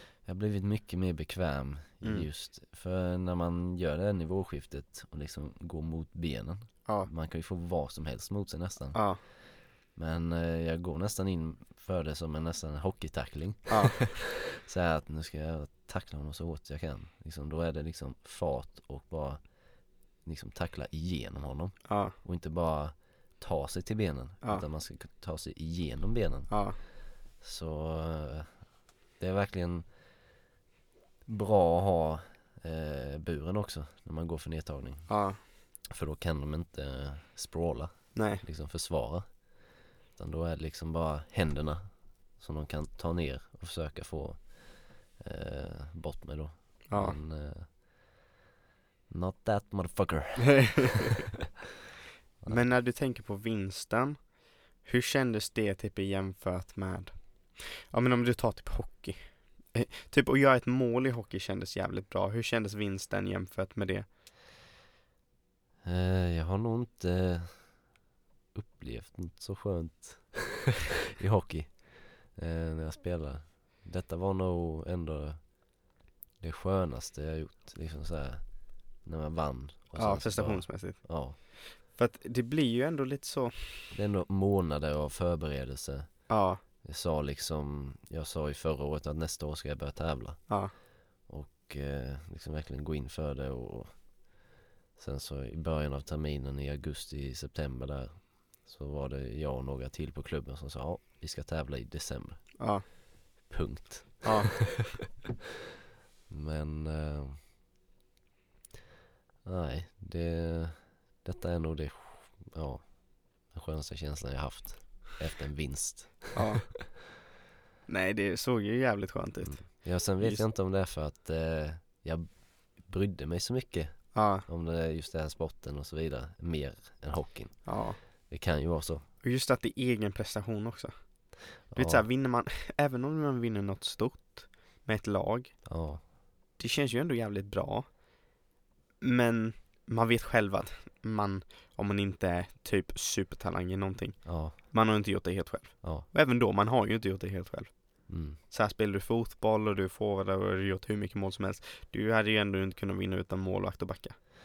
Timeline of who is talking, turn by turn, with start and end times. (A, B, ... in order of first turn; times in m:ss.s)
0:00.2-0:09.4 A
0:02.0-0:02.3 B
0:08.9-0:09.2 B
0:09.9-0:19.5 A
0:13.7-0:14.0 B
0:20.2-0:26.7 A
0:21.9-0:22.1 B
0:26.5-0:26.8 B
0:27.4-0:29.9 A
0:31.2-0:39.5 A
0:35.1-0:35.4 B
0:38.1-0:38.4 B
0:40.1-0:47.8 A
0:46.9-0:47.2 B
0:49.1-0:51.0 A
0:50.6-0:51.1 B
0:52.5-1:04.1 B
1:05.8-1:07.9 A
1:08.5-1:15.6 A
1:16.4-1:21.4 A
1:20.0-1:23.9 B
1:23.9-1:34.0 A
1:26.3-1:26.6 B
1:35.0-1:42.6 A
1:42.6-1:42.8 B
1:43.4-1:44.6 A
1:44.2-1:44.8 B
1:46.3-1:47.4 A
1:49.4-1:56.4 A
1:56.3-1:56.7 B
1:57.9-2:00.4 B
1:59.4-2:09.0 A
2:04.1-2:04.4 B
2:07.6-2:08.0 B
2:09.2-2:15.7 B
2:11.7-2:12.0 A
2:15.6-2:16.0 A
2:16.6-2:18.0 B
2:19.0-2:34.3 B
2:24.2-2:24.6 A
2:28.1-2:28.4 A